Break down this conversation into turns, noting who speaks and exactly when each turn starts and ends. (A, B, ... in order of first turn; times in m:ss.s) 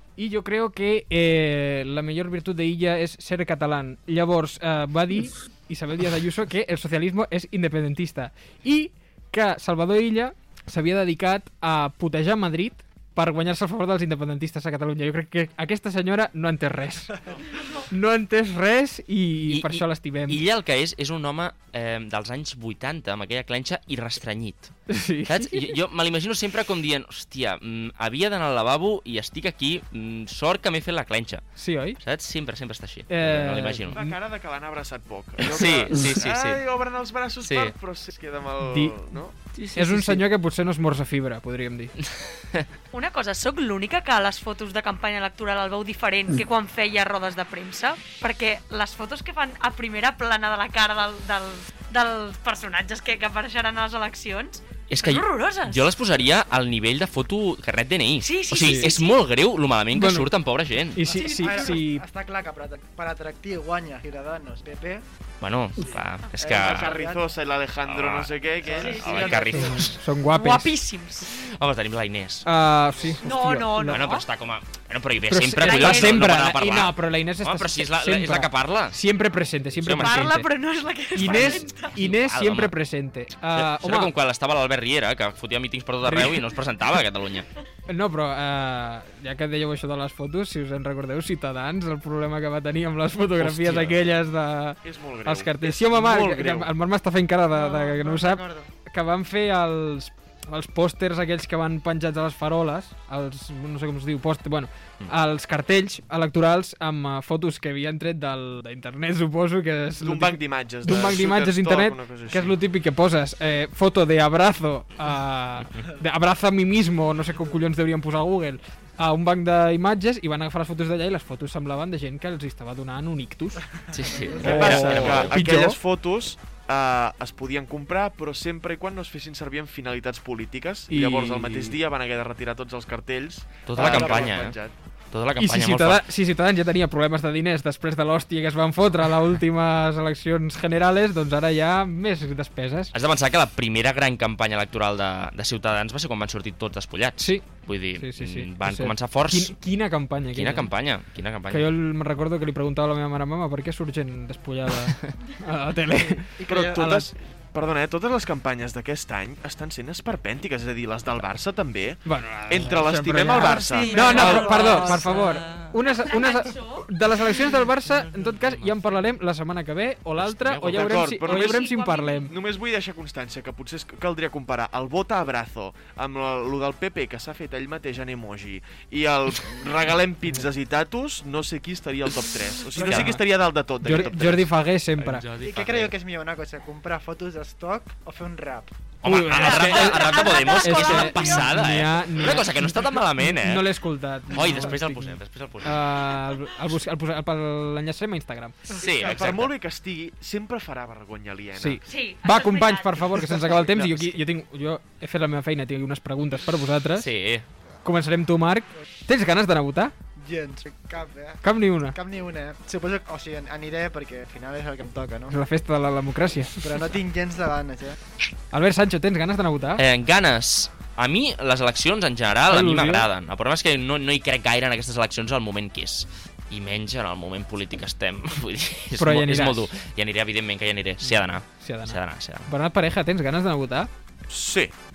0:00.2-0:17.2 A
0:17.9-0:20.4 A
0:19.5-0:31.4 B
0:24.9-0:25.8 A
0:31.6-0:32.0 A
0:32.0-0:34.0 B
0:33.1-0:34.1 A
0:33.9-0:39.3 C
0:35.4-0:36.6 B
0:37.4-0:37.7 B
0:38.7-0:39.0 A
0:39.6-0:40.2 B
0:39.7-0:42.0 A
0:42.9-0:55.9 D
0:54.9-1:01.1 B
0:58.2-0:59.2 D
0:58.6-0:58.9 A
0:59.9-1:00.3 A
1:00.9-1:02.0 A
1:01.1-1:05.0 E
1:05.4-1:06.9 B
1:06.4-1:07.3 E
1:06.4-1:09.6 C
1:07.8-1:10.0 B
1:08.7-1:09.4 D
1:08.8-1:09.5 E
1:09.5-1:10.7 A
1:10.3-1:11.3 D
1:11.3-1:12.4 B
1:12.4-1:14.2 A
1:13.2-1:14.2 D
1:13.8-1:19.0 B
1:15.3-1:20.5 A
1:15.6-1:16.2 D
1:19.8-1:20.4 B
1:20.0-1:21.9 D
1:21.1-1:24.1 A
1:21.2-1:22.7 B
1:23.5-1:27.4 B
1:26.0-1:26.4 A
1:27.9-2:03.6 A
1:33.4-1:34.0 B
1:34.8-1:36.7 C
1:37.5-1:38.7 E
1:50.0-1:52.6 C
2:03.9-2:05.4 B
2:04.2-2:04.7 E
2:04.4-2:05.8 A
2:04.4-2:14.7 C
2:10.9-2:11.8 A
2:13.6-2:14.6 B
2:13.8-2:14.2 A
2:15.1-2:16.0 B
2:15.4-2:22.9 A
2:22.9-2:29.5 B
2:27.2-2:30.7 A
2:30.3-2:31.7 B
2:31.5-2:37.1 A
2:36.4-2:36.9 E
2:36.4-2:44.9 C
2:42.0-2:52.3 A
2:43.3-2:45.7 B
2:44.0-2:44.8 E
2:45.8-2:46.9 D
2:48.1-2:48.9 B
2:50.2-2:51.1 B
2:50.7-2:51.7 C
2:51.2-2:52.3 D
2:52.3-3:04.5 C
3:02.8-3:03.2 E
3:02.8-3:03.2 B
3:03.8-3:05.2 A
3:05.0-3:05.9 B
3:05.4-3:08.7 E
3:09.0-3:13.7 B
3:09.0-3:18.6 A
3:09.3-3:11.5 D
3:14.3-3:15.8 B
3:18.7-3:19.5 B
3:18.8-3:21.9 C
3:21.5-3:27.1 A
3:21.9-3:23.1 D
3:27.0-3:27.4 B
3:27.8-3:29.9 A
3:30.2-3:35.3 E
3:31.4-3:32.0 A
3:35.3-3:36.6 A
3:36.6-3:38.0 E
3:38.5-3:39.8 A
3:39.8-3:52.5 B
3:42.5-3:43.0 A
3:49.0-3:49.7 A
3:51.0-3:53.9 A
3:54.3-3:54.7 C